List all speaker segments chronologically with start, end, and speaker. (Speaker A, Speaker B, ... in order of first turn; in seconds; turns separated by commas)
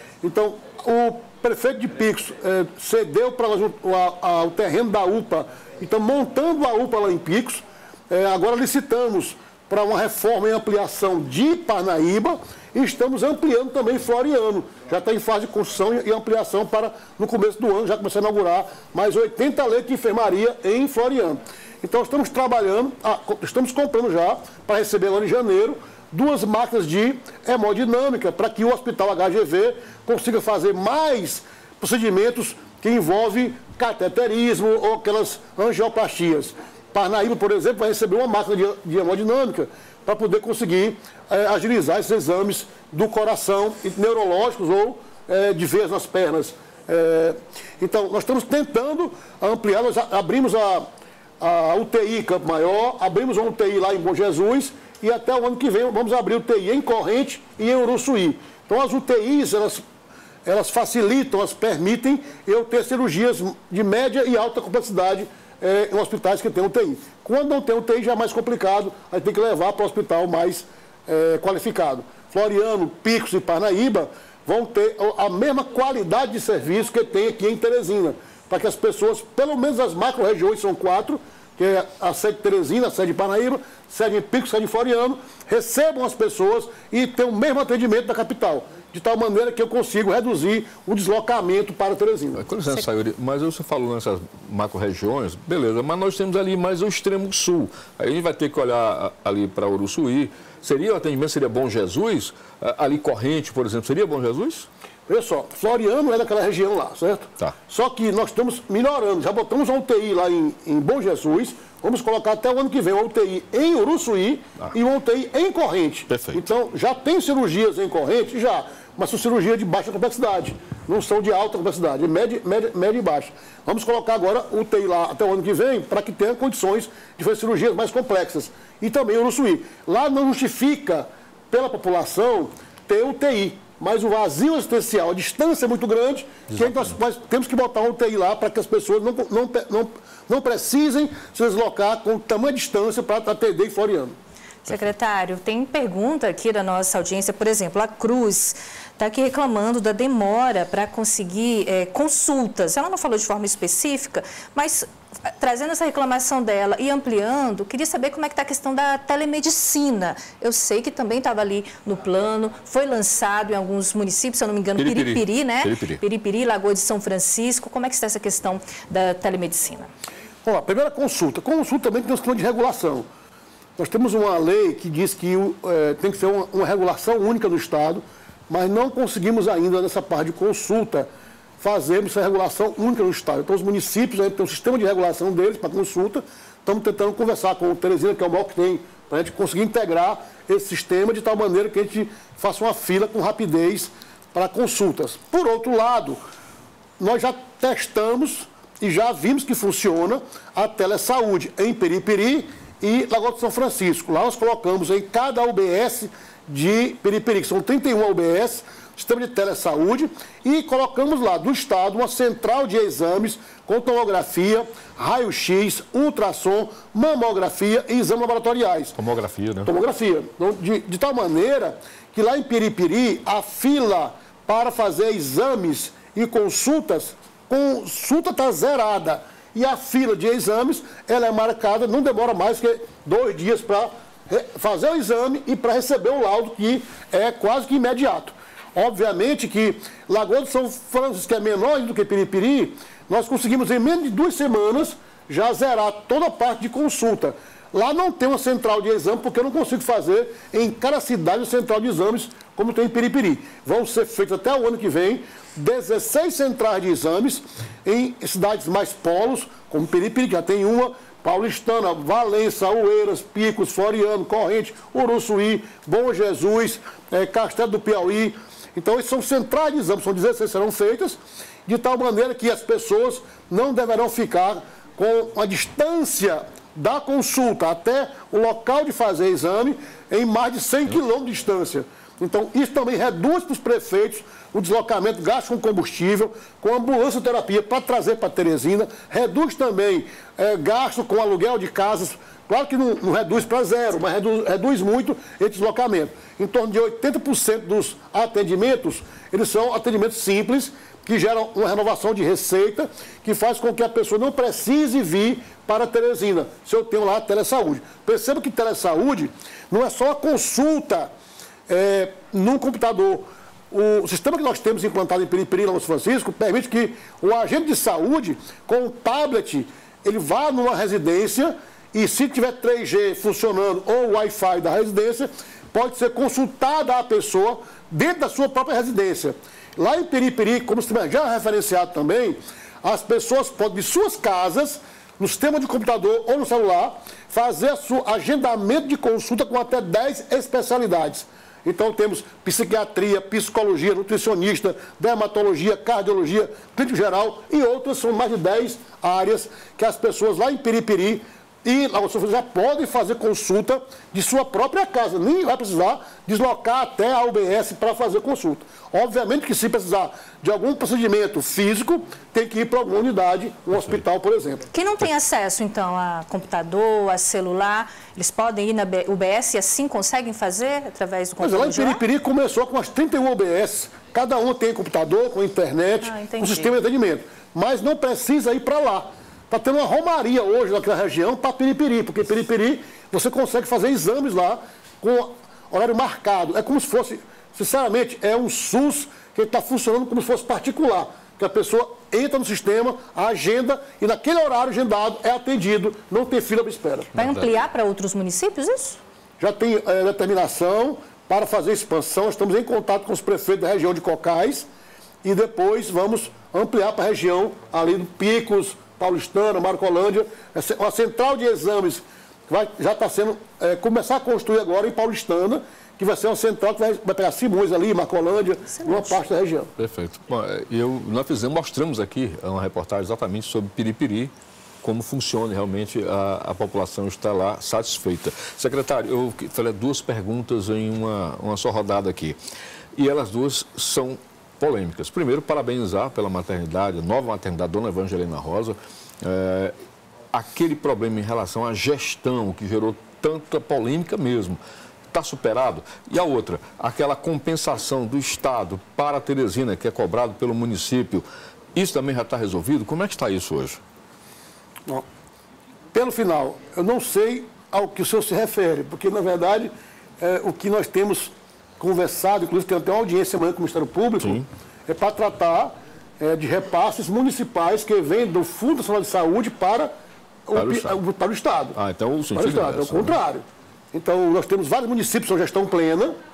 Speaker A: 0.2-50.9, Speaker A: 51.4-59.8, Speaker A: 60.5-92.4, Speaker B: 92.4-104.7, Speaker A: 105.1-144.1, Speaker B: 116.1-116.4, Speaker C: 144.7-169.9, Speaker B: 164.8-166.0, Speaker A: 170.4-173.1, Speaker A: 173.8-181.1, Speaker A: 181.6-196.2, Speaker A: 197.0-218.9, Speaker B: 219.0-219.7, Speaker A: 219.7-311.1, Speaker A: 311.7-364.6, Speaker C: 364.7-372.0, Speaker A: 371.4-397.1, Speaker C: 376.0-376.8, Speaker B: 397.1-397.5, Speaker C: 397.1-399.0, Speaker A: 399.4-404.7, Speaker A: 405.2-419.7, Speaker C: 418.7-419.2, Speaker B: 419.8-424.3, Speaker B: 424.8-432.4, Speaker B: 433.0-439.7, Speaker B: 440.3-444.6, Speaker B: 445.1-453.8, Speaker A: 455.9-469.9, Speaker B: 464.2-464.5, Speaker A: 470.5-471.8, Speaker B: 470.5-471.0, Speaker B: 471.8-473.2, Speaker A: 472.3-476.2